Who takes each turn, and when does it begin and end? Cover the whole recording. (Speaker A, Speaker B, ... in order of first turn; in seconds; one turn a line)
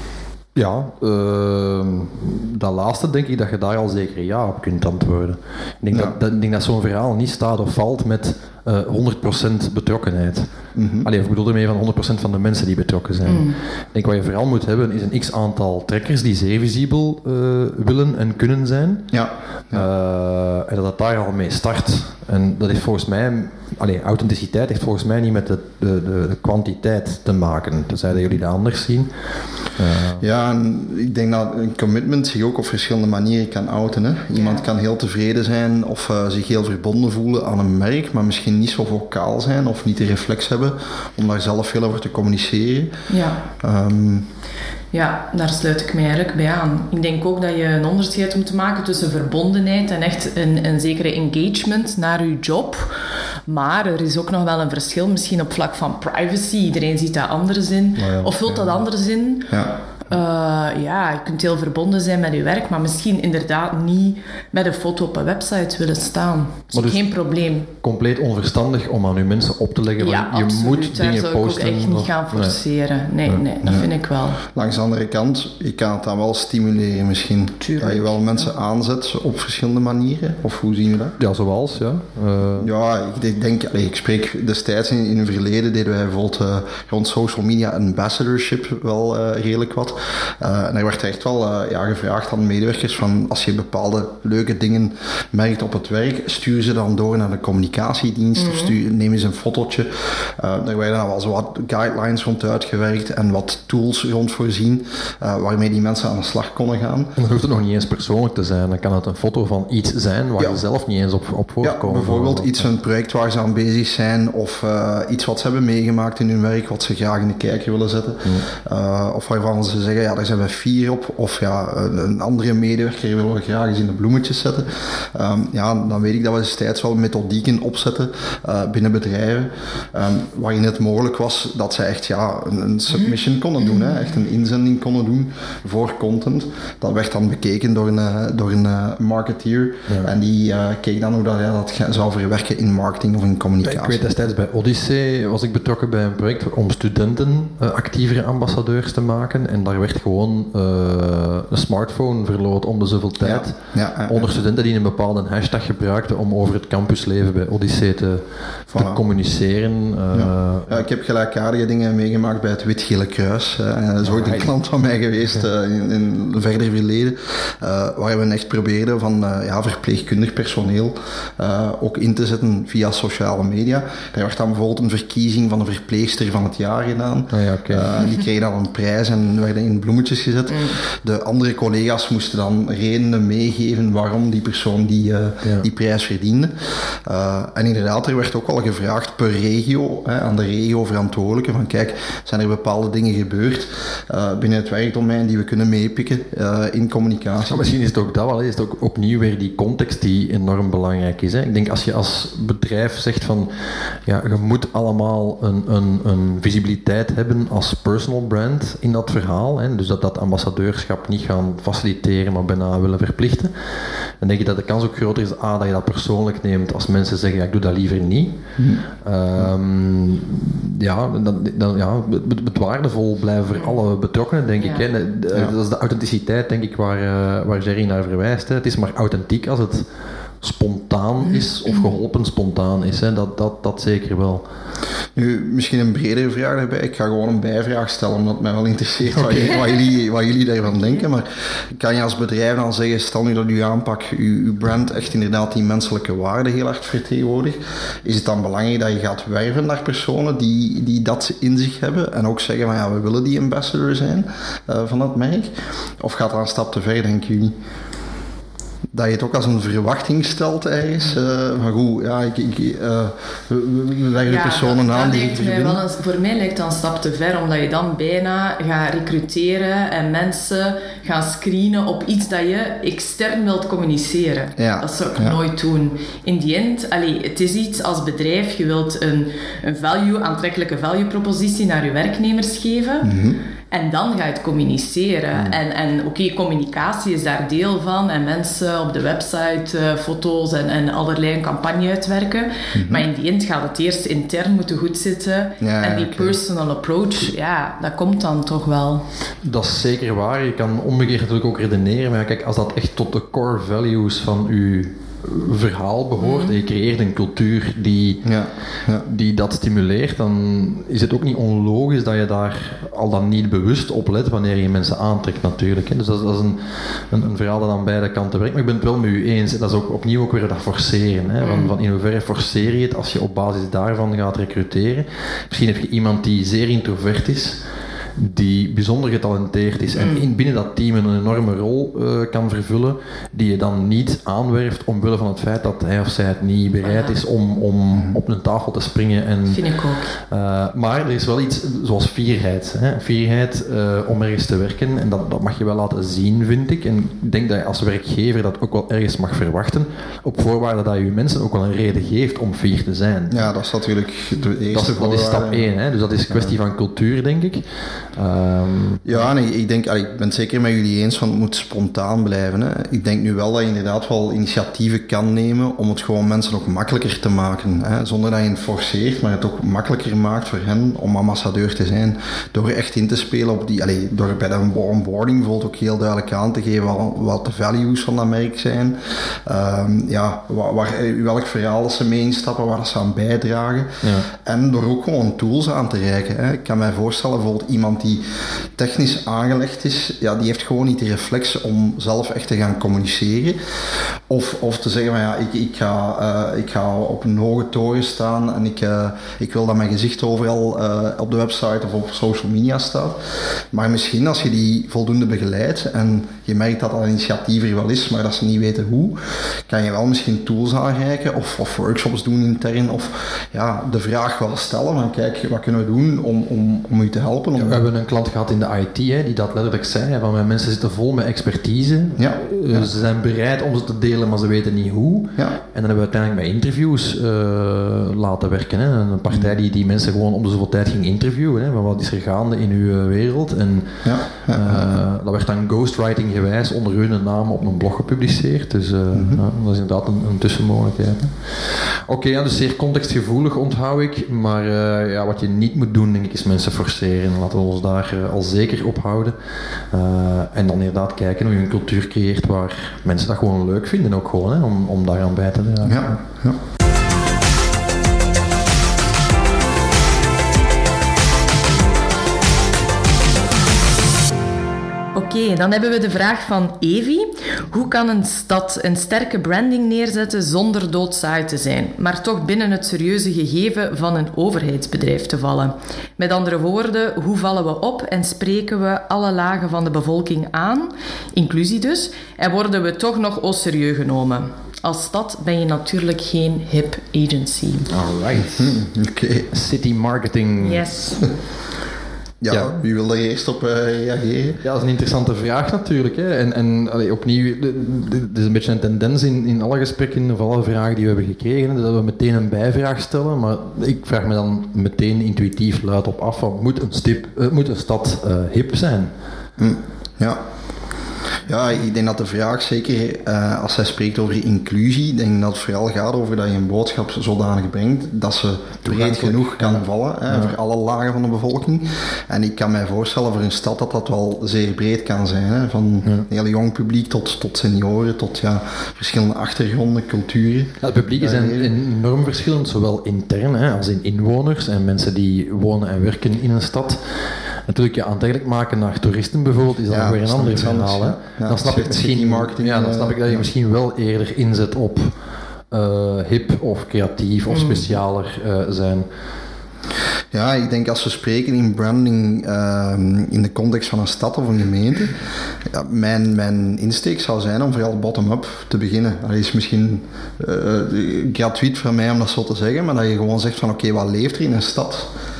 Speaker A: 0.5-19.1
Speaker B: 10.7-11.1
Speaker C: 13.2-13.6
Speaker B: 19.1-19.9
Speaker A: 19.7-29.1
Speaker A: 29.6-30.2
Speaker B: 30.2-42.9
Speaker C: 34.3-34.6
Speaker C: 43.1-43.4
Speaker B: 43.6-44.2
Speaker C: 44.9-52.9
Speaker C: 53.5-67.7
Speaker B: 58.0-58.6
Speaker B: 59.5-59.7
Speaker A: 66.7-67.0
Speaker A: 67.8-72.6
Speaker C: 70.0-74.4
Speaker B: 73.6-73.9
Speaker B: 74.5-81.2
Speaker C: 77.6-78.5
Speaker A: 81.2-82.7
Speaker B: 82.6-107.1
Speaker C: 98.3-98.7
Speaker A: 107.2-112.7
Speaker B: 111.6-144.0
Speaker A: 143.6-160.8
Speaker B: 153.2-154.3
Speaker B: 158.7-159.0
Speaker B: 160.1-186.5
Speaker A: 164.0-164.5
Speaker A: 177.3-177.9
Speaker C: 180.5-180.8
Speaker B: 187.0-197.6
Speaker A: 197.4-203.5
Speaker A: 204.0-213.5
Speaker A: 214.2-218.4
Speaker B: 218.6-218.8
Speaker A: 218.9-229.8
Speaker C: 223.6-223.8
Speaker C: 224.6-224.9
Speaker A: 230.4-234.4
Speaker B: 235.2-257.5
Speaker A: 239.1-239.6
Speaker B: 258.9-265.8
Speaker C: 264.2-283.1
Speaker B: 274.6-275.4
Speaker B: 283.0-283.4
Speaker C: 283.7-299.0
Speaker A: 285.3-285.6
Speaker B: 292.7-293.1
Speaker B: 295.6-296.4
Speaker A: 299.4-308.2
Speaker C: 306.2-306.5
Speaker B: 308.2-309.1
Speaker A: 309.0-327.6
Speaker C: 321.4-321.7
Speaker A: 328.2-339.6
Speaker C: 329.9-330.2
Speaker C: 336.8-337.2
Speaker C: 339.5-340.1
Speaker A: 340.3-353.5
Speaker B: 353.3-355.6
Speaker A: 354.7-357.6
Speaker B: 356.3-356.5
Speaker A: 358.1-359.2
Speaker B: 359.1-393.6
Speaker A: 384.0-384.3
Speaker B: 394.3-403.2
Speaker B: 403.7-417.8
Speaker A: 417.6-449.3
Speaker B: 422.2-422.9
Speaker B: 434.0-434.9
Speaker B: 439.1-439.4
Speaker A: 449.9-456.2
Speaker B: 455.8-456.6
Speaker C: 465.1-487.9
Speaker A: 487.9-488.8
Speaker B: 488.4-489.5
Speaker A: 489.5-490.9
Speaker C: 490.6-491.3
Speaker B: 492.4-494.6
Speaker A: 492.5-492.8
Speaker A: 494.6-509.1
Speaker B: 509.6-510.4
Speaker B: 511.5-531.7
Speaker A: 518.8-520.5
Speaker A: 530.8-545.1
Speaker B: 539.9-543.5
Speaker A: 545.7-549.1
Speaker C: 547.5-547.9
Speaker B: 550.3-565.1